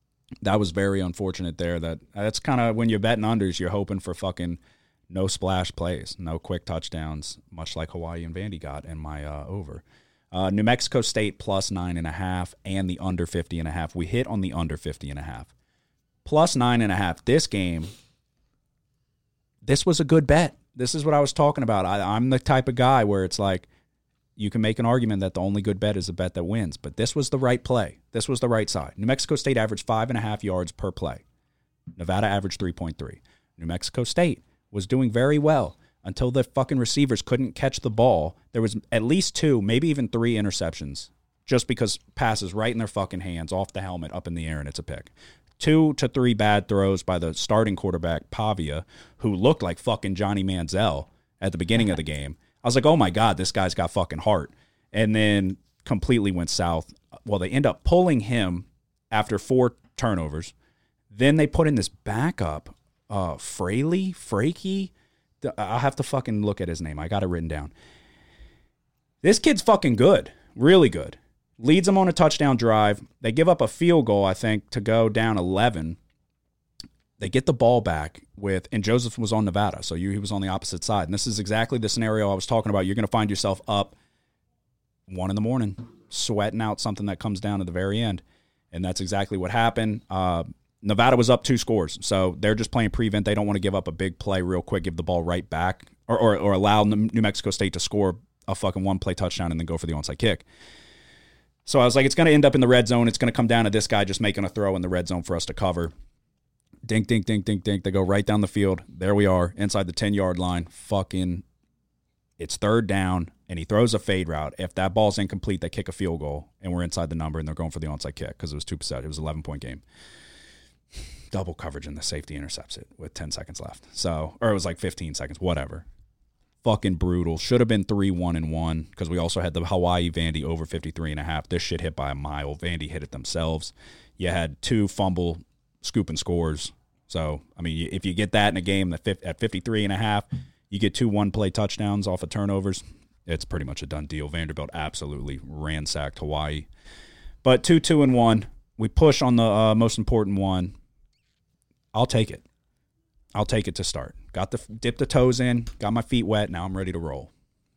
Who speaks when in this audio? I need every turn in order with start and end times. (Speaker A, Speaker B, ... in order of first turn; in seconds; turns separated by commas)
Speaker A: 0.4-4.6, Speaker A: 5.1-15.5, Speaker A: 16.2-17.9, Speaker A: 19.6-23.7, Speaker A: 24.4-31.2, Speaker A: 31.9-60.5, Speaker A: 61.1-64.9, Speaker A: 65.4-67.7, Speaker A: 69.2-76.0, Speaker A: 77.2-84.0, Speaker A: 85.1-100.4, Speaker A: 101.7-105.9, Speaker A: 106.8-111.4, Speaker A: 112.4-119.8, Speaker A: 121.3-125.8, Speaker A: 126.6-146.7, Speaker A: 147.4-150.7, Speaker A: 151.9-152.4, Speaker A: 153.3-157.3